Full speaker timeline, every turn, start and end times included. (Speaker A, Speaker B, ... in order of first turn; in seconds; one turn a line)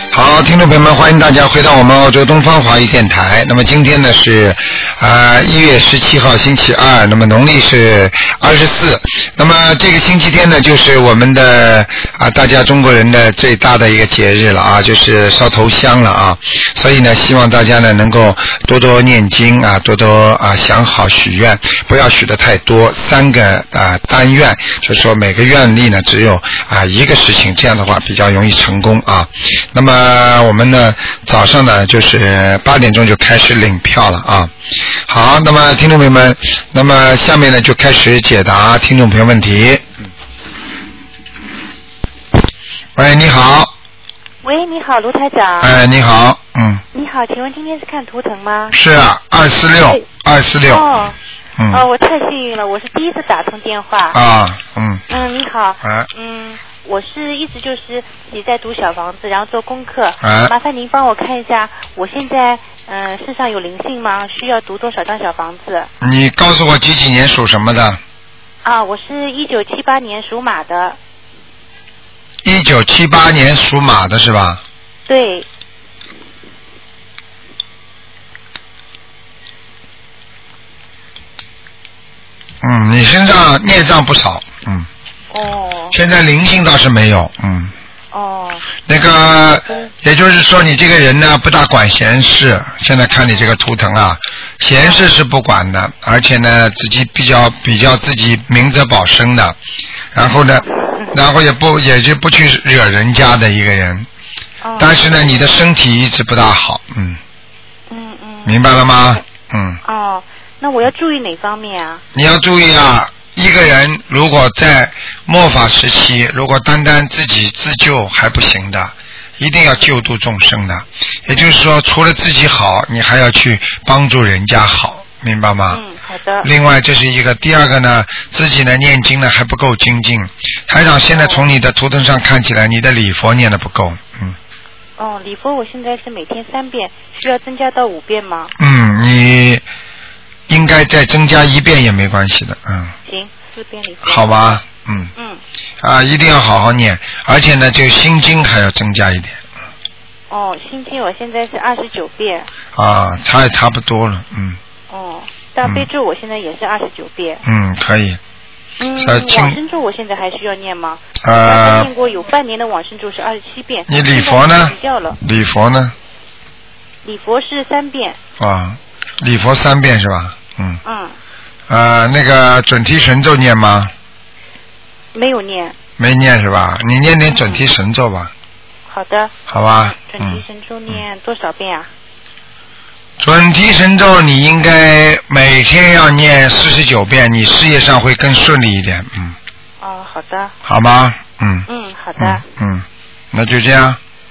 Speaker A: 0.1-34.5
Speaker A: 35.1-39.8
Speaker A: 43.0-43.7
Speaker B: 44.4-45.8
Speaker A: 45.6-46.8
Speaker B: 46.9-48.8
Speaker A: 48.7-50.9
Speaker B: 50.7-51.2
Speaker A: 51.6-51.9
Speaker B: 51.7-54.2
Speaker A: 54.1-55.0
Speaker B: 55.1-65.9
Speaker A: 55.8-56.1
Speaker A: 60.2-60.5
Speaker A: 66.0-68.0
Speaker B: 68.7-71.0
Speaker A: 72.4-74.6
Speaker B: 75.1-75.5
Speaker A: 82.6-84.9
Speaker B: 85.3-86.0
Speaker A: 85.9-87.7
Speaker B: 88.1-88.8
Speaker A: 88.9-99.6
Speaker B: 94.8-95.1
Speaker A: 100.1-104.1
Speaker B: 100.5-101.1
Speaker B: 104.6-105.5
Speaker A: 104.8-107.2
Speaker B: 107.9-109.2
Speaker A: 108.5-109.8
Speaker B: 109.8-112.0
Speaker A: 112.1-125.8
Speaker B: 121.3-121.5
Speaker B: 125.7-126.5
Speaker A: 126.4-134.4
Speaker B: 131.1-131.4
Speaker B: 135.0-138.5
Speaker A: 138.6-139.6
Speaker A: 140.5-142.9
Speaker B: 143.1-144.6
Speaker A: 144.0-145.1
Speaker B: 145.2-145.4
Speaker A: 145.8-149.4
Speaker B: 150.3-152.5
Speaker A: 152.7-154.6
Speaker B: 154.9-157.4
Speaker A: 155.6-155.9
Speaker A: 157.4-158.2
Speaker B: 158.8-165.2
Speaker A: 159.0-159.6
Speaker A: 161.2-161.9
Speaker A: 163.9-165.9
Speaker B: 167.1-168.2
Speaker A: 168.4-170.8
Speaker B: 170.8-171.1
Speaker A: 171.7-173.9
Speaker B: 175.1-175.8
Speaker A: 176.0-178.3
Speaker B: 178.9-179.3
Speaker A: 179.5-181.0
Speaker B: 179.9-181.9
Speaker A: 183.2-189.4
Speaker B: 189.8-190.5
Speaker A: 190.7-194.0
Speaker B: 191.7-192.4